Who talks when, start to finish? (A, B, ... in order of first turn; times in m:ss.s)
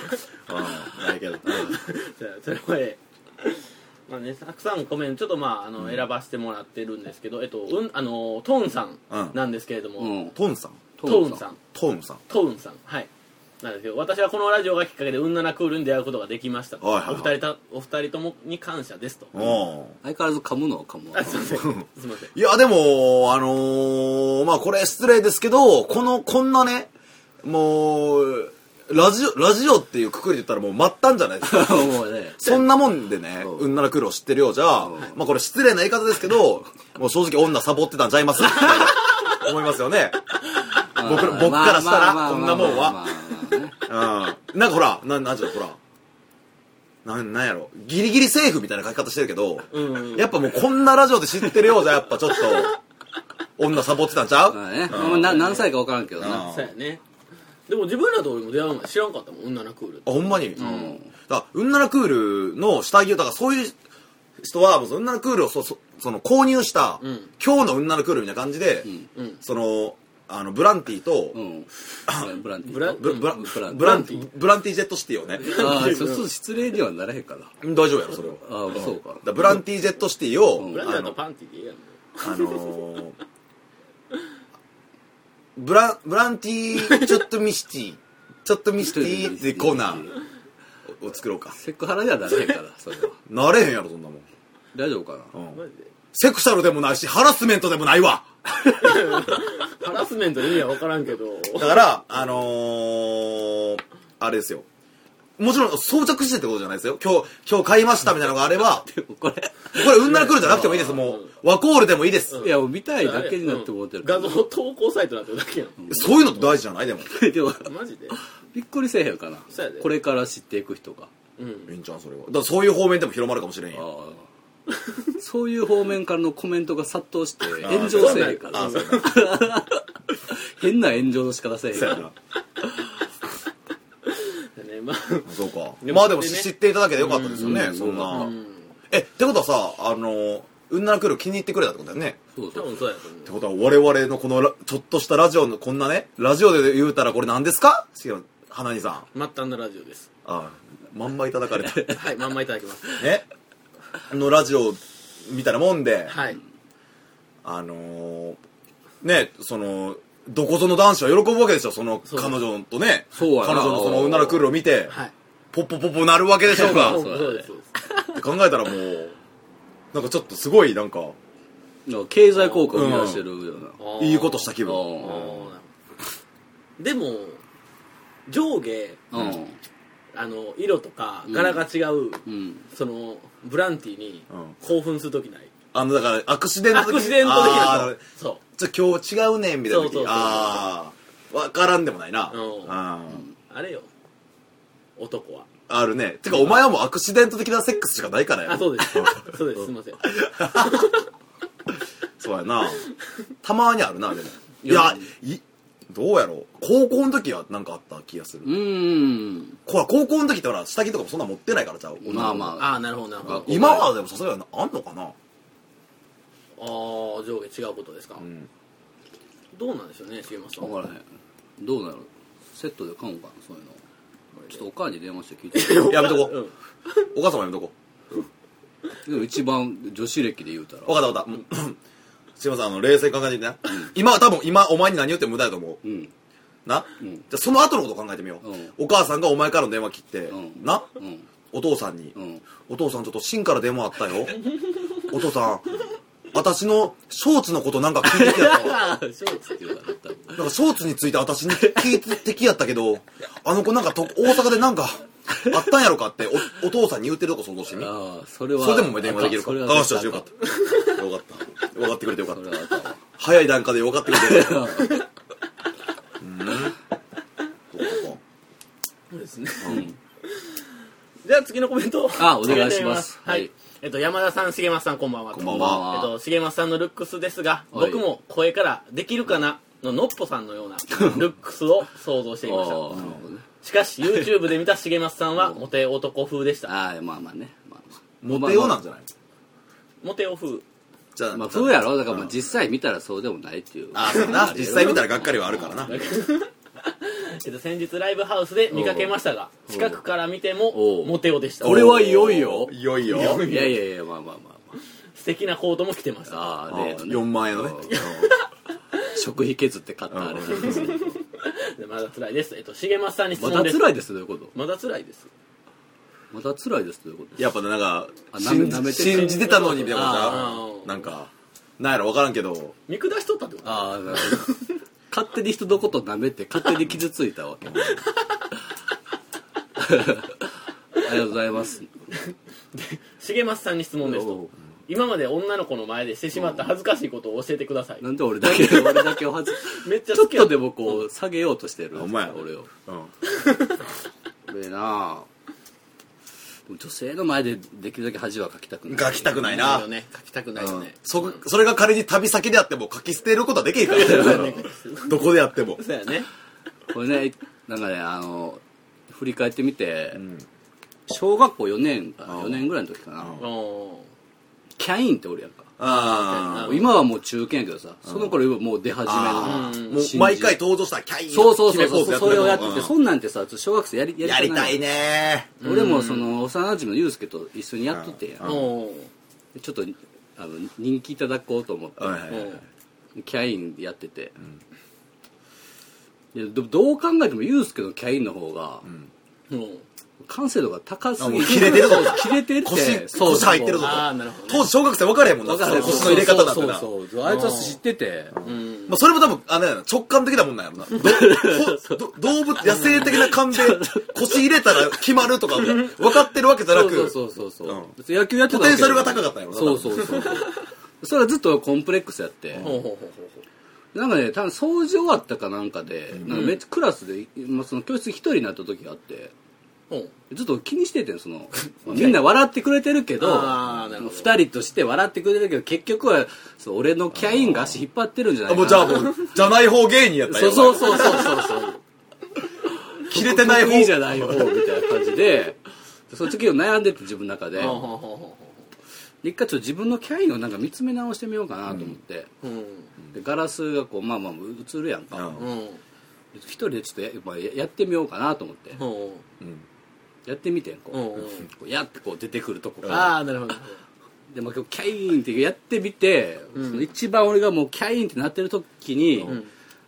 0:00.5-0:01.8 A
0:01.5-0:10.3 B
0:09.1-0:09.4 A
0:10.0-0:10.3 C
0:10.4-0:10.8 A
0:11.0-0:11.4 C
0:11.0-0:11.6 B
0:11.7-0:12.2 A
0:12.3-0:13.1 B
0:13.6-0:19.4 B
0:16.8-0:17.3 A
0:19.3-0:20.0 A
0:20.0-0:21.6 C
0:21.1-0:22.3 B
0:21.6-0:26.9 A
0:27.4-0:43.0 A
0:31.4-0:32.4 C
0:33.4-0:33.7 C
0:34.8-0:35.1 C
0:41.0-0:43.8 C
0:43.8-0:45.8 A
0:47.0-0:52.8 A
0:49.7-0:50.3 B
0:52.3-0:52.7 B
0:53.6-0:55.4 A
0:54.5-0:56.5 C
0:54.9-0:55.7 B
0:56.2-0:56.7 A
0:56.2-0:57.0 B
0:57.7-1:01.0 B
1:00.1-1:03.8 A
1:00.6-1:01.0 C
1:04.4-1:08.9 A
1:07.0-1:07.3 B
1:09.4-1:11.4 A
1:11.3-1:14.1 C
1:12.1-1:12.3 A
1:12.6-1:14.2 B
1:13.0-1:15.5 A
1:15.4-1:16.2 B
1:15.4-1:17.6 C
1:17.6-1:21.2 A
1:18.4-1:19.4 C
1:20.6-1:20.9 C
1:20.7-1:22.8 B
1:22.2-1:23.2 A
1:25.6-1:30.1 A
1:28.8-1:30.2 C
1:31.0-1:31.6 A
1:31.6-1:33.2 C
1:33.3-1:34.2 A
1:34.7-1:35.3 C
1:35.3-1:35.6 A
1:35.5-1:35.9 B
1:36.1-1:38.3 A
1:38.8-1:41.9 B
1:41.6-1:44.7 A
1:45.4-1:48.9 A
1:48.7-1:51.0 C
1:49.8-1:52.4 A
1:50.0-1:51.3 B
1:52.3-1:56.1 B
1:52.4-1:54.4 C
1:55.8-1:56.1 C
1:55.9-1:57.2 A
1:57.1-2:01.1 C
1:57.6-1:58.2 B
1:59.5-1:59.9 B
2:01.4-2:01.7 B
2:01.7-2:03.8 A
2:03.7-2:04.3 C
2:05.2-2:12.1 C
2:07.6-2:09.2 A
2:07.9-2:09.2 B
2:11.7-2:12.1 A
2:14.1-2:18.7 B
2:15.3-2:18.3 A
2:17.3-2:18.3 C
2:18.9-2:22.2 A
2:22.4-2:22.7 C
2:22.5-2:23.4 B
2:23.2-2:29.1 A
2:29.1-2:30.1 B
2:30.2-2:31.8 A
2:31.6-2:32.0 C
2:31.9-2:33.1 B
2:33.0-2:33.3 A
2:34.1-2:36.2 A
2:36.1-2:36.4 B
2:37.4-2:38.4 A
2:39.0-2:44.9 A
2:42.1-2:42.4 B
2:43.1-2:44.5 C
2:44.9-2:45.1 B
2:45.5-2:47.0 A
2:46.5-2:48.2 B
2:46.5-2:47.5 C
2:48.1-2:49.2 A
2:49.9-2:51.2 A
2:51.9-2:53.8 C
2:52.4-2:52.7 B
2:52.7-2:53.2 A
2:53.8-2:55.7 B
2:54.0-2:55.3 A
2:54.6-2:55.5 C
2:56.8-2:57.4 B
2:58.3-2:59.0 B
2:59.1-2:59.6 C
3:00.1-3:05.5 B
3:01.3-3:01.6 C
3:02.2-3:02.6 C
3:05.7-3:08.0 A
3:06.7-3:08.4 B
3:08.6-3:13.2 A
3:09.7-3:10.7 B
3:12.3-3:12.8 B
3:13.5-3:13.9 B
3:15.0-3:15.5 B
3:15.7-3:19.3 A
3:18.5-3:21.0 B
3:20.1-3:20.9 A
3:22.2-3:22.8 A
3:23.4-3:28.6 A
3:24.6-3:25.0 B
3:28.4-3:29.6 C
3:29.7-3:32.6 A
3:32.0-3:33.8 C
3:32.6-3:33.9 B
3:33.3-3:35.2 A
3:36.6-3:38.2 B
3:38.2-3:38.5 A
3:39.5-3:40.8 B
3:40.6-3:41.0 C
3:41.6-3:43.8 C
3:44.5-3:46.1 C
3:45.5-3:46.5 B
3:45.8-3:46.4 A
3:47.1-3:47.7 A
3:49.0-3:51.0 C
3:50.9-3:51.8 A
3:52.4-3:55.8 A
3:55.8-3:56.1 C
3:56.7-4:00.9 A
3:58.4-3:58.7 C
4:00.3-4:01.3 C
4:01.5-4:04.5 A
4:02.2-4:02.4 C
4:05.0-4:05.8 A
4:06.3-4:08.8 A
4:08.1-4:10.5 C
4:08.9-4:09.6 B
4:10.3-4:17.9 A
4:11.6-4:12.0 C
4:17.7-4:20.3 C
4:18.6-4:24.8 A
4:20.6-4:20.9 B
4:22.3-4:23.0 C
4:24.1-4:25.0 C
4:26.2-4:26.8 A
4:27.7-4:28.2 A
4:29.1-4:30.5 B
4:29.6-4:29.9 A
4:29.7-4:29.9 C
4:31.2-4:46.7 B
4:32.2-4:33.5 C
4:35.3-4:35.9 A
4:35.4-4:36.1 C
4:37.7-4:38.0 C
4:40.9-4:41.2 C
4:42.4-4:43.4 C
4:42.9-4:43.2 A
4:45.4-4:45.6 C
4:46.7-4:48.8 C
4:48.2-4:49.1 A
4:50.0-4:50.6 B
4:51.2-4:52.4 A
4:51.3-4:55.9 C
4:53.9-4:56.0 A
4:55.8-5:01.9 B
4:58.7-4:59.2 C
4:59.7-5:00.0 C
5:00.7-5:04.8 C
5:01.6-5:03.6 A
5:03.1-5:03.8 B
5:05.2-5:06.6 B
5:06.3-5:08.1 C
5:06.7-5:08.3 A
5:07.9-5:08.5 B
5:09.0-5:11.1 C
5:10.1-5:11.0 A
5:10.6-5:13.8 B
5:13.4-5:14.5 C
5:14.5-5:15.3 B
5:16.3-5:17.5 C
5:17.4-5:22.8 A
5:18.3-5:20.6 C
5:19.0-5:21.1 B
5:22.9-5:24.7 B
5:23.6-5:24.6 C
5:25.1-5:28.0 C
5:29.8-5:31.9 C
5:32.3-5:41.0 B
5:34.0-5:34.5 C
5:36.3-5:36.7 C
5:38.0-5:42.7 C
5:42.0-5:43.1 A
5:43.3-5:43.8 B
5:44.5-5:45.3 C
5:46.7-5:49.8 C
5:48.9-5:49.9 A
5:49.4-5:51.4 B
5:50.6-5:55.8 A
5:53.8-5:56.3 B
5:54.0-5:54.5 C
5:56.9-6:00.2 C
6:00.2-6:00.4 A
6:01.1-6:03.4 C
6:02.3-6:02.7 A
6:03.4-6:04.1 B
6:04.8-6:05.7 C
6:05.8-6:06.8 A
6:05.8-6:06.9 B
6:06.5-6:10.6 C
6:08.0-6:08.4 A
6:09.0-6:13.0 A
6:09.4-6:10.0 B
6:11.3-6:14.8 C
6:14.2-6:15.5 A
6:15.6-6:16.3 B
6:15.6-6:18.6 C
6:17.9-6:18.7 A
6:18.4-6:19.1 B
6:19.6-6:22.4 C
6:22.0-6:22.6 A
6:22.3-6:22.6 B
6:23.2-6:24.4 C
6:26.3-6:28.9 C
6:29.5-6:29.8 B
6:30.2-6:34.0 C
6:31.2-6:36.9 A
6:33.8-6:34.7 B
6:35.4-6:38.4 C
6:35.7-6:36.3 B
6:37.3-6:37.8 B
6:38.3-6:47.9 A
6:38.4-6:39.0 B
6:41.0-6:42.0 C
6:42.7-6:44.8 C
6:45.6-6:45.9 B
6:46.7-6:52.7 C
6:48.5-6:50.4 A
6:50.0-6:50.3 B
6:52.6-6:52.8 A
6:52.6-6:53.4 B
6:53.9-6:59.3 C
6:56.1-6:56.5 A
6:56.3-6:56.6 B
7:00.3-7:09.3 C
7:01.9-7:02.2 B
7:03.2-7:04.4 B
7:07.1-7:07.8 A
7:08.5-7:11.4 A
7:10.3-7:11.8 C
7:13.0-7:15.6 C
7:13.1-7:14.6 A
7:16.1-7:17.9 C
7:17.6-7:18.6 B
7:19.2-7:22.3 C
7:21.7-7:22.0 A
7:22.4-7:22.9 B
7:23.1-7:25.4 C
7:25.1-7:25.4 A
7:25.4-7:25.8 B
7:26.3-7:28.8 C
7:28.8-7:29.2 B
7:29.4-7:29.6 A
7:30.3-7:33.2 C
7:30.9-7:31.5 B
7:32.8-7:33.1 A
7:32.9-7:33.8 B
7:34.3-7:39.4 C
7:36.6-7:36.8 B